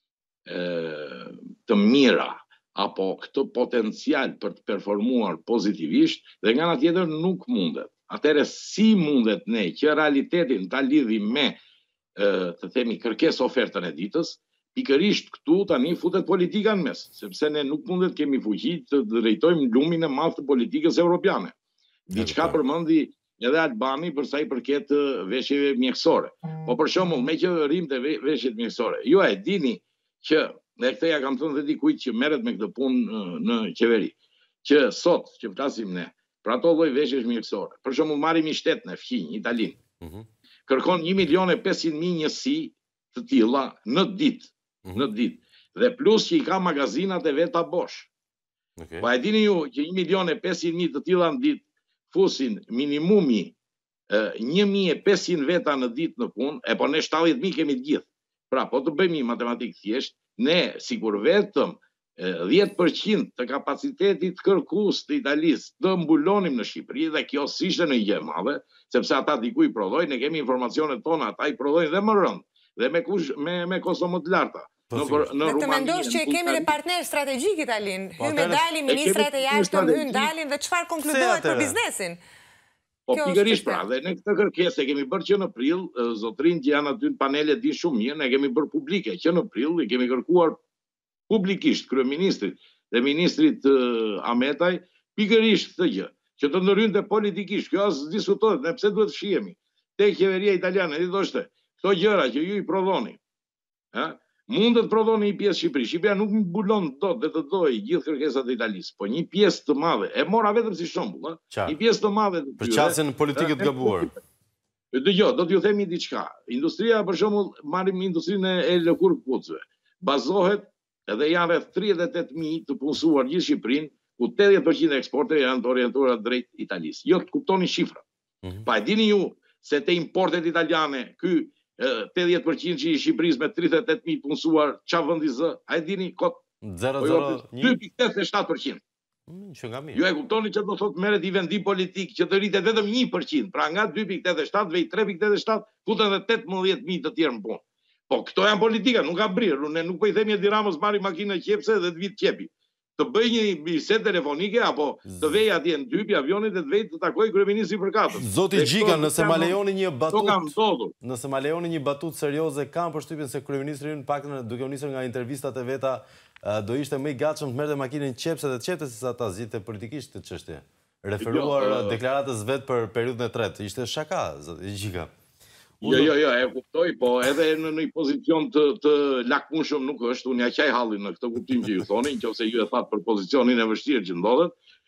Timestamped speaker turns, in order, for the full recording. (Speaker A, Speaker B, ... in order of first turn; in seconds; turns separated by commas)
Speaker A: 0.5-11.6, Speaker A: 12.2-21.5, Speaker A: 22.1-39.8, Speaker B: 22.1-22.6, Speaker B: 40.0-40.2, Speaker A: 40.7-48.1, Speaker B: 48.8-49.1, Speaker A: 49.0-53.5, Speaker A: 54.1-76.7, Speaker B: 74.9-75.3, Speaker C: 75.4-82.2, Speaker B: 78.2-78.7, Speaker A: 78.8-80.3, Speaker B: 81.0-81.8, Speaker A: 83.1-90.6, Speaker C: 83.1-83.9, Speaker A: 91.3-103.2, Speaker A: 103.9-114.2, Speaker B: 111.5-111.8, Speaker B: 112.6-114.1, Speaker A: 114.9-128.0, Speaker A: 128.6-136.4, Speaker B: 136.6-137.8, Speaker A: 137.0-138.8, Speaker B: 139.3-140.0, Speaker A: 139.9-159.6, Speaker B: 158.2-175.1, Speaker A: 160.1-160.9, Speaker A: 171.2-172.0, Speaker B: 175.8-176.1, Speaker A: 175.8-184.5